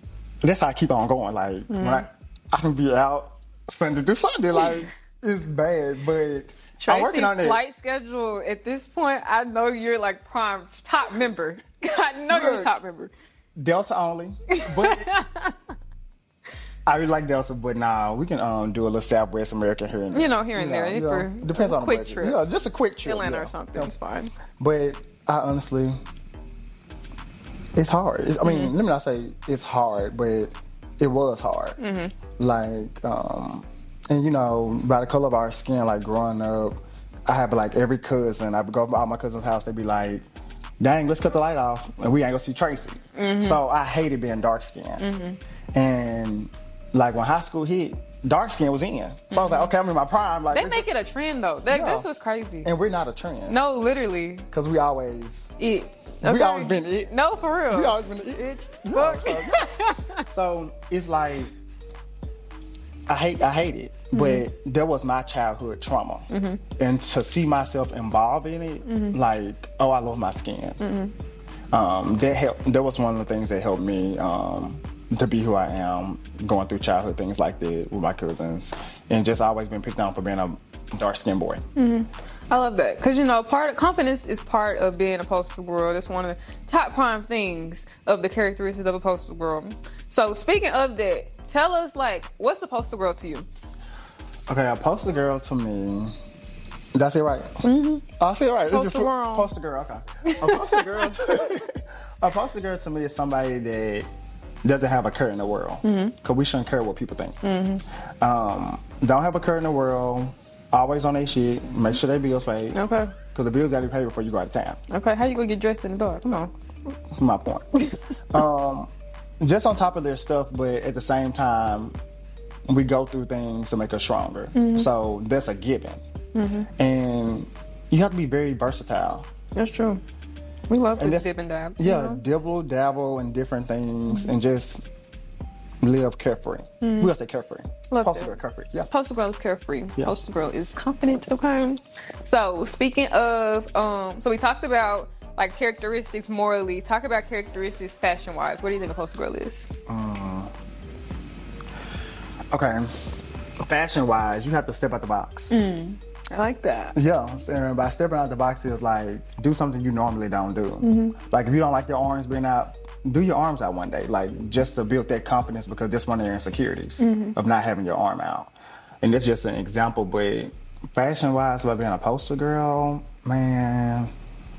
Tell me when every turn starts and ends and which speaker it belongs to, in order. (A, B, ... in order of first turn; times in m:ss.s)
0:00.4-0:07.6 A
0:01.7-0:02.0 B
0:06.8-0:13.1 B
0:12.3-0:12.7 A
0:13.6-0:15.1 A
0:14.5-0:15.6 B
0:16.8-0:23.9 A
0:20.1-0:22.4 B
0:23.0-0:24.3 B
0:24.5-0:26.0 A
0:27.7-0:31.8 A
0:28.4-0:28.7 B
0:31.8-0:32.1 B
0:32.4-0:40.2 A
0:40.8-0:45.0 A
0:43.1-0:43.6 B
0:45.0-0:45.4 B
0:45.7-0:50.9 A
0:49.3-0:49.7 B
0:50.5-0:52.7 B
0:51.7-0:52.1 A
0:52.6-0:53.6 A
0:53.5-0:54.5 B
0:54.5-0:55.5 A
0:55.6-1:00.2 B
0:56.2-0:57.1 A
0:57.7-1:01.5 A
1:03.1-1:10.8 A
1:04.1-1:04.4 B
1:06.3-1:06.6 B
1:08.8-1:09.2 B
1:10.8-1:11.1 B
1:11.7-1:21.6 A
1:21.8-1:33.5 B
1:34.5-1:36.2 A
1:36.9-1:44.1 A
1:37.6-1:38.0 B
1:38.7-1:39.5 B
1:40.2-1:41.2 B
1:44.6-1:47.4 A
1:45.8-1:46.1 B
1:47.4-1:47.8 B
1:48.2-1:52.8 A
1:52.7-1:53.1 B
1:53.3-1:54.8 A
1:54.9-1:56.5 B
1:57.1-2:02.0 A
2:02.7-2:06.0 A
2:04.5-2:04.9 B
2:06.3-2:06.7 B
2:06.8-2:09.3 A
2:09.5-2:10.0 B
2:10.7-2:12.2 B
2:11.0-2:14.8 A
2:14.1-2:14.4 B
2:15.8-2:18.9 A
2:16.8-2:17.1 B
2:17.9-2:18.3 B
2:18.9-2:29.7 B
2:29.9-2:30.5 A
2:32.5-2:35.6 A
2:35.5-2:37.0 B
2:36.9-2:54.1 A
2:40.8-2:41.2 B
2:47.0-2:47.4 B